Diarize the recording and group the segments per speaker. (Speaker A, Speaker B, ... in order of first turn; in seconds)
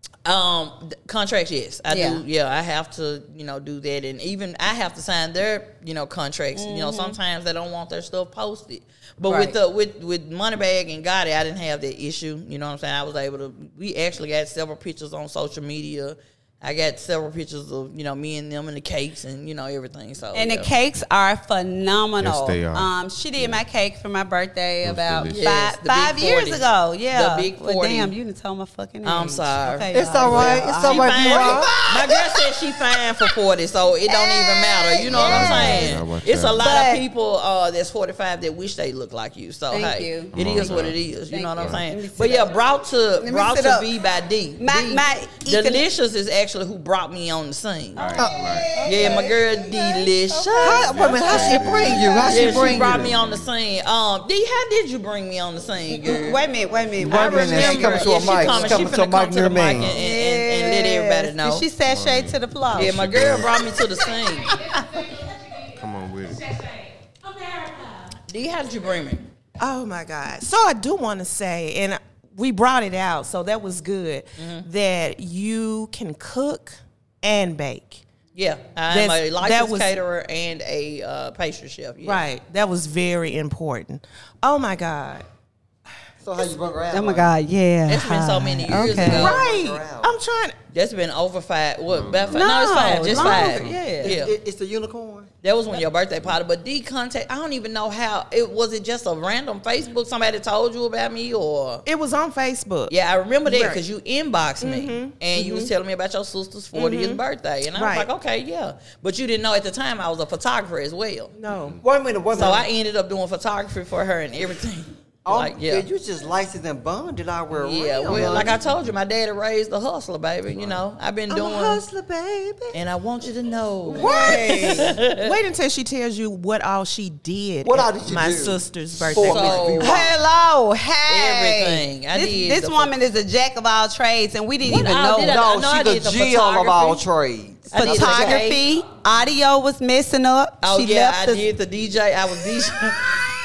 Speaker A: 0.2-20.7, 25.3-28.1, 29.0-48.2, 48.8-51.5, 52.2-56.4, 57.0-61.7, 62.7-64.6, 68.3-69.3, 74.4-74.7, 78.3-82.3, 87.9-89.4, 90.7-94.3, 95.4-101.8, 102.9-111.3, 112.3-115.9, 117.6-121.8, 122.7-125.3, 129.2-130.1, 131.1-132.9, 134.7-137.0, 137.7-138.7, 140.6-143.2
Speaker B: 1.9-2.2, 6.5-7.2, 9.3-9.6, 20.3-32.5, 34.1-36.0, 36.5-37.0, 39.7-42.5, 43.2-43.9, 44.6-45.8, 48.0-52.8, 55.9-58.9, 59.8-63.0, 86.9-89.3, 92.3-94.1, 124.0-125.0, 129.8-135.4, 137.7-141.5
Speaker C: 22.2-23.6, 24.8-25.4, 35.0-36.7, 40.3-41.0, 41.6-41.8, 48.0-48.8, 50.8-53.5, 59.7-60.1, 61.9-63.7, 65.7-66.5, 91.9-93.3
Speaker D: 29.9-31.9, 48.2-48.8, 50.6-53.1, 57.0-60.0, 86.2-87.3, 88.7-90.1, 93.1-95.3, 111.8-112.7, 115.2-118.6, 121.6-122.8, 123.9-125.0, 127.6-130.1, 134.7-138.3
Speaker E: 69.6-78.0, 78.9-79.9, 82.0-85.2, 88.7-90.6, 101.8-102.9, 103.5-103.8, 104.6-105.7, 106.8-107.2, 107.7-108.1, 111.4-111.8, 121.3-121.8, 125.1-129.9